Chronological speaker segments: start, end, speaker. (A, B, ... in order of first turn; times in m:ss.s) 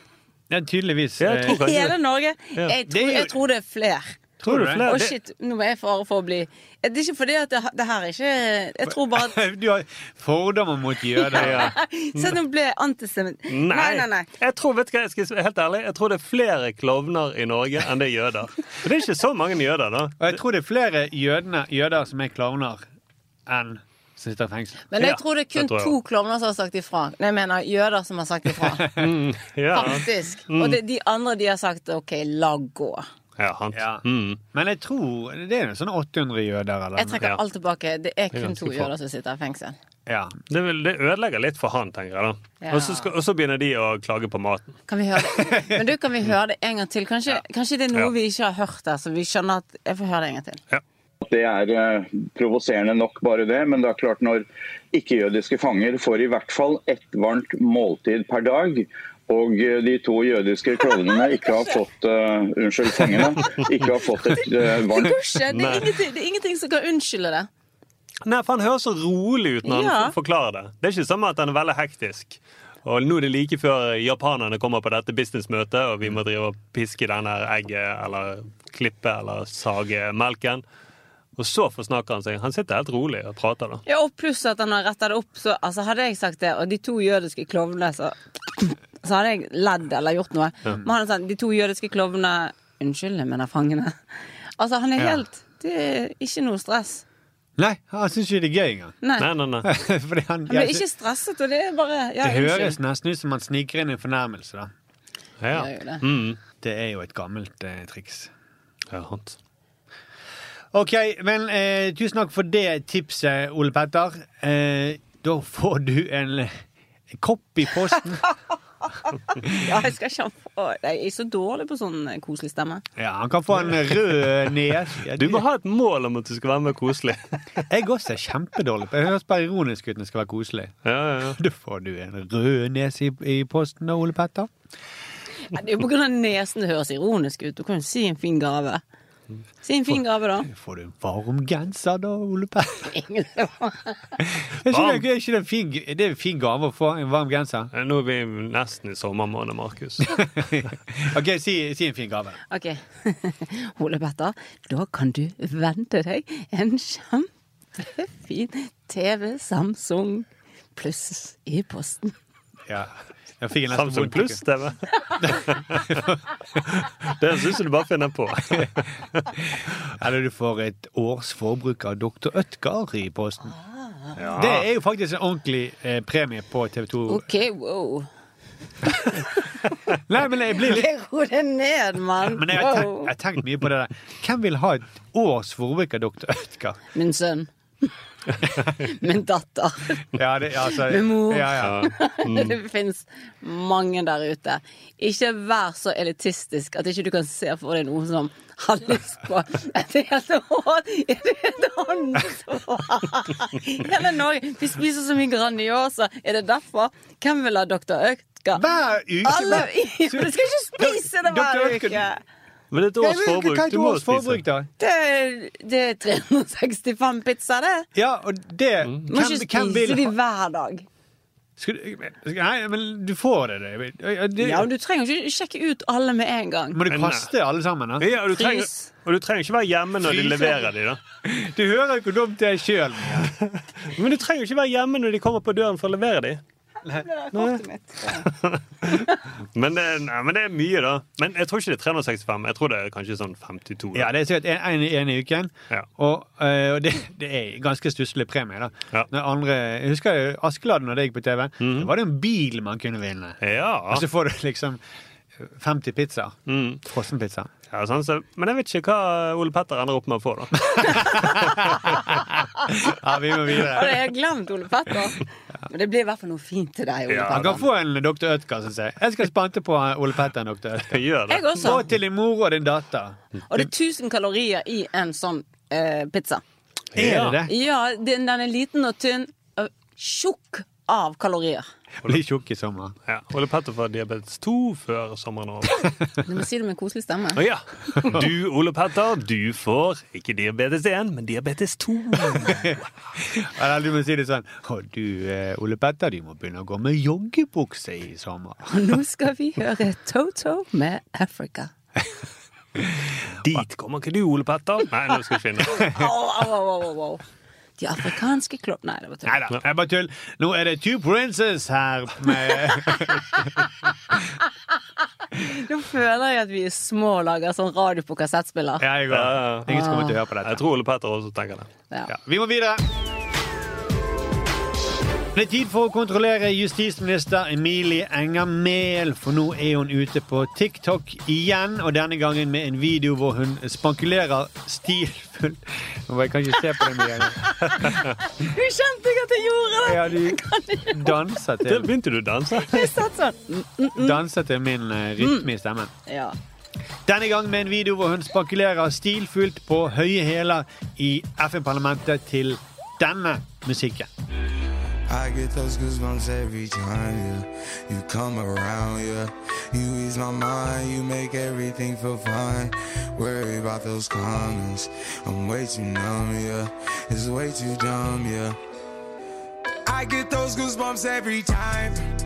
0:00.5-0:01.6 A
0:01.2-0:02.0 B
0:01.5-0:04.2 C
0:02.9-0:03.4 A
0:04.4-0:04.9 A
0:04.4-0:05.2 B
0:04.8-0:09.4 C
0:08.9-0:11.8 A
0:11.2-0:14.3 C
0:11.4-0:11.7 B
0:13.5-0:20.4 B
0:20.2-0:22.8 A
0:23.5-0:24.9 A
0:24.9-0:28.9 C
0:25.0-0:25.9 B
0:28.8-0:29.1 A
0:29.0-0:30.8 B
0:29.7-0:33.1 C
0:33.4-0:34.4 B
0:33.7-0:37.2 A
0:37.0-0:39.8 C
0:38.4-0:38.9 B
0:40.1-0:40.4 A
0:40.5-0:44.8 B
0:42.6-0:43.1 C
0:44.9-0:50.6 C
0:51.2-1:05.2 D
1:01.1-1:01.8 C
1:04.4-1:07.5 C
1:05.5-1:05.9 B
1:08.2-1:20.6 B
1:09.6-1:10.1 C
1:21.4-1:23.8 B
1:23.9-1:34.0 C
1:34.6-1:37.0 C
1:37.6-1:39.0 A
1:39.0-1:39.3 C
1:39.2-1:39.7 B
1:39.6-1:40.8 A
1:40.5-1:42.8 C
1:42.2-1:44.7 A
1:45.4-1:46.4 B
1:45.5-1:46.0 C
1:46.6-1:48.3 A
1:48.9-1:49.4 B
1:50.7-1:56.6 A
1:57.1-1:58.3 A
1:59.4-2:02.8 C
2:03.0-2:05.4 A
2:05.1-2:07.6 B
2:07.7-2:10.8 A
2:10.9-2:11.4 B
2:11.3-2:14.5 A
2:15.5-2:18.8 C
2:19.6-2:20.5 C
2:20.5-2:22.9 A
2:22.9-2:24.2 C
2:24.2-2:27.7 A
2:24.7-2:25.0 B
2:27.7-2:30.2 B
2:30.2-2:32.4 A
2:32.5-2:42.1 C
2:42.7-2:44.4 A
2:43.7-2:45.9 B
2:45.2-2:46.2 A
2:46.6-2:49.3 B
2:49.9-2:53.5 A
2:54.2-2:54.7 B
2:54.4-2:57.2 A
2:57.1-2:58.1 C
2:58.9-2:59.7 C
3:00.1-3:00.9 A
3:00.6-3:03.1 C
3:02.3-3:06.8 A
3:07.0-3:07.9 C
3:08.7-3:10.1 C
3:10.1-3:11.8 A
3:10.8-3:28.6 C
3:11.6-3:12.6 B
3:28.6-3:32.0 A
3:29.2-3:32.2 C
3:32.7-3:34.4 B
3:33.0-3:34.7 A
3:34.8-3:37.9 C
3:38.0-3:40.1 A
3:39.1-3:40.9 C
3:41.6-3:44.7 A
3:44.4-3:46.8 C
3:46.7-3:48.1 A
3:46.9-3:47.3 B
3:48.0-3:51.0 B
3:48.3-3:48.9 C
3:50.0-3:50.6 A
3:51.2-3:53.3 A
3:53.4-3:56.4 B
3:56.9-3:58.3 C
3:57.3-4:04.1 B
3:58.9-3:59.2 C
4:03.9-4:14.8 A
4:11.6-4:11.9 B
4:13.4-4:14.0 B
4:15.4-4:17.5 A
4:16.5-4:16.8 B
4:17.7-4:21.7 B
4:20.8-4:21.5 A
4:22.7-4:24.0 A
4:23.6-4:27.7 C
4:27.1-4:27.4 B
4:27.3-4:33.6 A
4:30.9-4:31.6 B
4:31.3-4:31.8 C
4:33.5-4:36.4 C
4:37.0-4:37.4 B
4:37.0-4:37.5 A
4:37.4-4:41.7 C
4:42.0-4:42.9 A
4:43.1-4:45.9 B
4:46.2-4:47.4 C
4:47.4-4:52.9 B
4:52.3-4:59.0 A
4:58.7-5:01.7 C
5:03.4-5:05.9 B
5:05.7-5:07.2 C
5:07.8-5:09.4 C
5:09.2-5:13.4 A
5:15.3-5:18.9 C
5:18.8-5:20.6 A
5:19.1-5:19.7 B
5:19.7-5:20.2 C
5:20.4-5:21.7 B
5:22.1-5:22.8 A
5:25.3-5:37.6 A
5:37.0-5:41.2 C
5:39.8-5:41.9 A
5:41.6-5:42.9 B
5:42.6-5:44.2 C
5:44.0-5:45.9 A
5:45.2-5:45.5 C
5:46.1-5:46.4 C
5:47.1-5:54.1 A
5:55.1-6:08.6 E
6:09.9-6:12.0 E